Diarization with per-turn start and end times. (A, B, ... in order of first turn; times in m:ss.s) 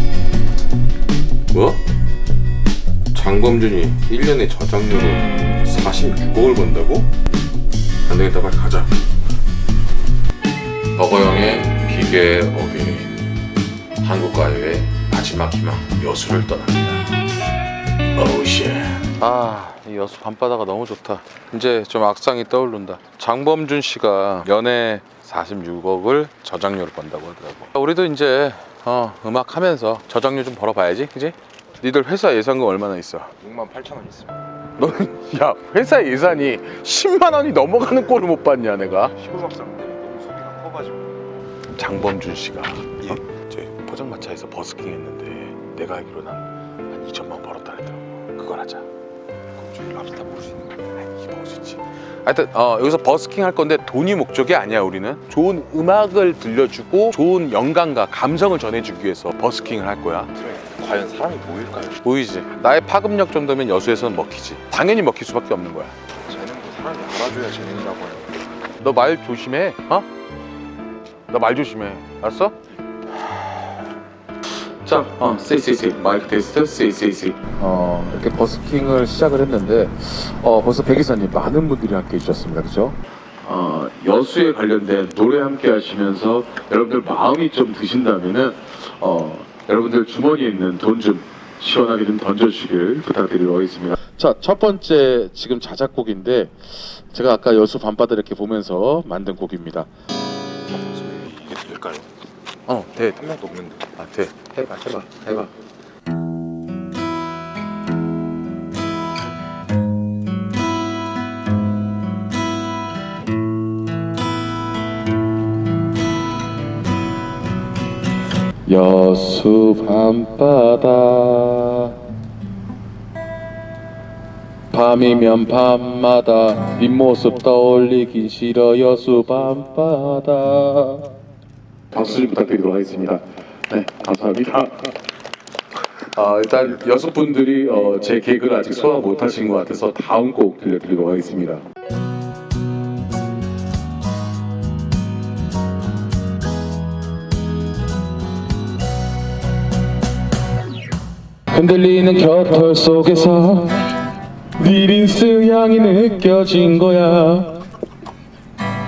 0:01.5-0:01.8 A
0:03.1-0:07.1 A
0:08.0-0:08.9 A
0:11.0-0:13.2 A
0:14.0-0:17.1 A
0:18.1-0:33.3 A
0:33.4-0:34.4 B
0:34.8-0:39.2 A
0:39.2-0:41.1 B
0:41.8-0:48.8 A
0:49.7-0:50.5 B
0:49.7-1:00.3 A
1:00.4-1:02.0 B
1:02.0-1:05.9 A
1:06.3-1:08.4 B
1:08.8-1:10.1 A
1:11.3-1:12.6 A
1:14.8-1:39.9 A
1:40.7-1:42.1 B
1:42.7-1:43.4 A
1:43.2-1:43.8 B
1:44.0-1:45.5 A
1:58.7-2:02.0 A
2:04.7-2:11.1 A
2:11.9-2:14.9 A
2:16.1-2:21.6 A
2:31.5-2:33.9 A
2:34.6-2:37.7 A